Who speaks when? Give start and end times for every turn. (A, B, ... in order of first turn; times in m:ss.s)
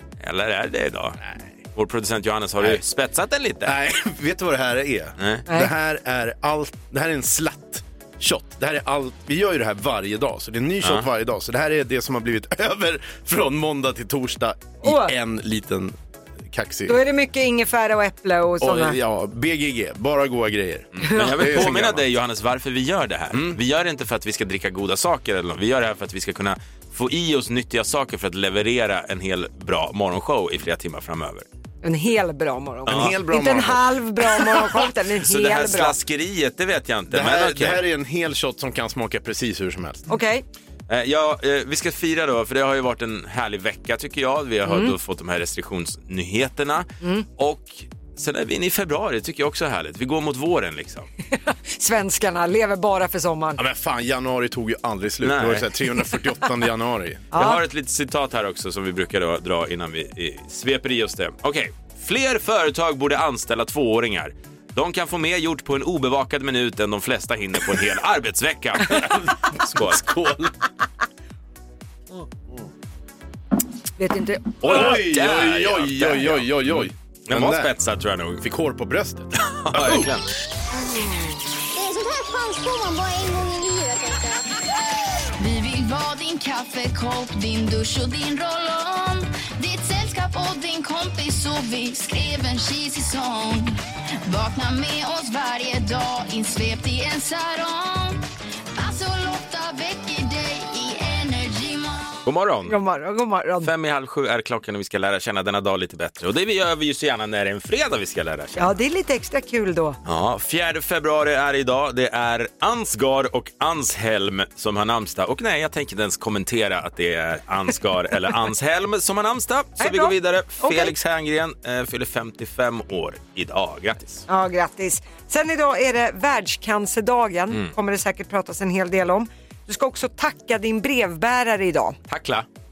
0:00.2-0:01.2 A
0:01.8-0:03.7 A
0:03.6-0:16.0 B
0:05.2-0:05.5 A
0:10.8-0:11.1 A
0:14.8-0:15.1 C
0:16.5-0:17.0 B
0:16.9-0:19.0 C
0:18.6-0:22.0 B
0:21.0-0:31.5 A
0:21.1-0:21.7 C
0:23.3-0:23.6 B
0:31.8-0:36.0 C
0:32.9-0:34.7 B
0:32.9-0:33.2 A
0:35.2-0:37.8 A
0:37.1-0:40.1 B
0:40.1-0:40.4 C
0:40.9-0:51.1 A
0:44.7-0:45.0 C
0:47.0-0:47.3 C
0:51.3-0:53.6 C
0:53.6-0:57.2 B
0:55.2-0:55.7 A
0:57.3-0:57.6 C
0:57.4-1:10.0 A
1:09.0-1:10.5 B
1:14.0-1:15.0 C
1:14.6-1:18.4 A
1:14.6-1:17.8 B
1:18.4-1:20.1 B
1:19.5-1:20.3 A
1:21.7-1:24.5 D
1:25.4-1:38.2 E
1:38.8-1:42.2 E
1:42.2-1:42.8 A
1:42.7-1:43.7 C
1:43.6-1:48.8 A
1:48.6-1:50.0 C
1:50.0-2:04.2 A
1:59.8-2:00.9 C
2:04.3-2:12.0 C
2:12.1-2:12.5 A